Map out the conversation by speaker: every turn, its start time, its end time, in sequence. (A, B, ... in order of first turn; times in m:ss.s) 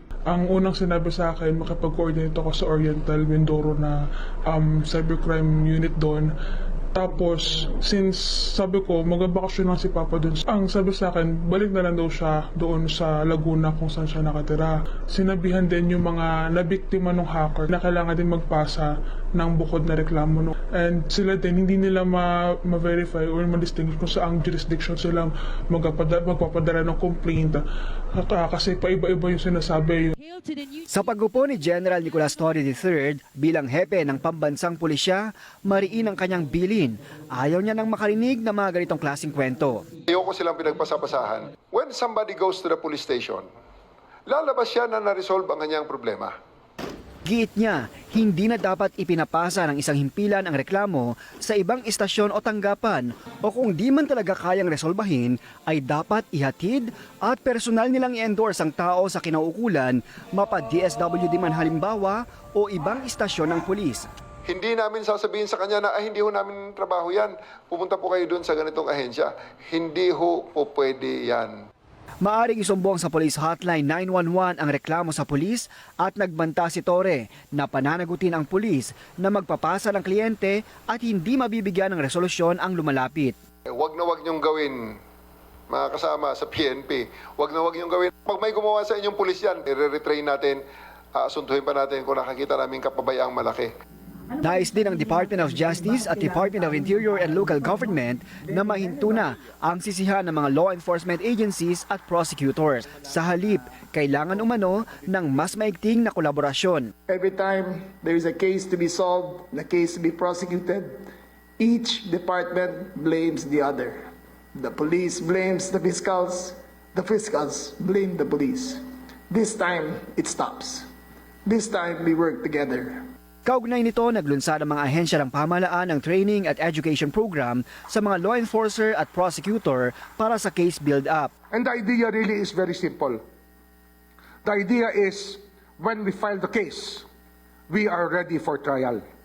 0:00.3-0:06.3 A
0:06.9-0:27.6 A
0:28.1-0:30.2 A
0:30.9-0:39.9 B
0:40.1-0:43.4 C
0:44.3-0:46.3 C
0:47.2-1:04.1 B
1:04.5-1:11.5 C
1:12.2-1:23.4 B
1:23.7-1:25.0 C
1:25.7-1:30.6 C
1:31.1-1:33.7 C
1:34.4-1:46.9 B
1:47.1-1:51.0 D
1:51.6-2:00.9 D
2:01.4-2:03.0 D
2:03.4-2:11.3 B
2:11.5-2:13.2 E
2:14.4-2:17.1 E
2:17.7-2:19.0 E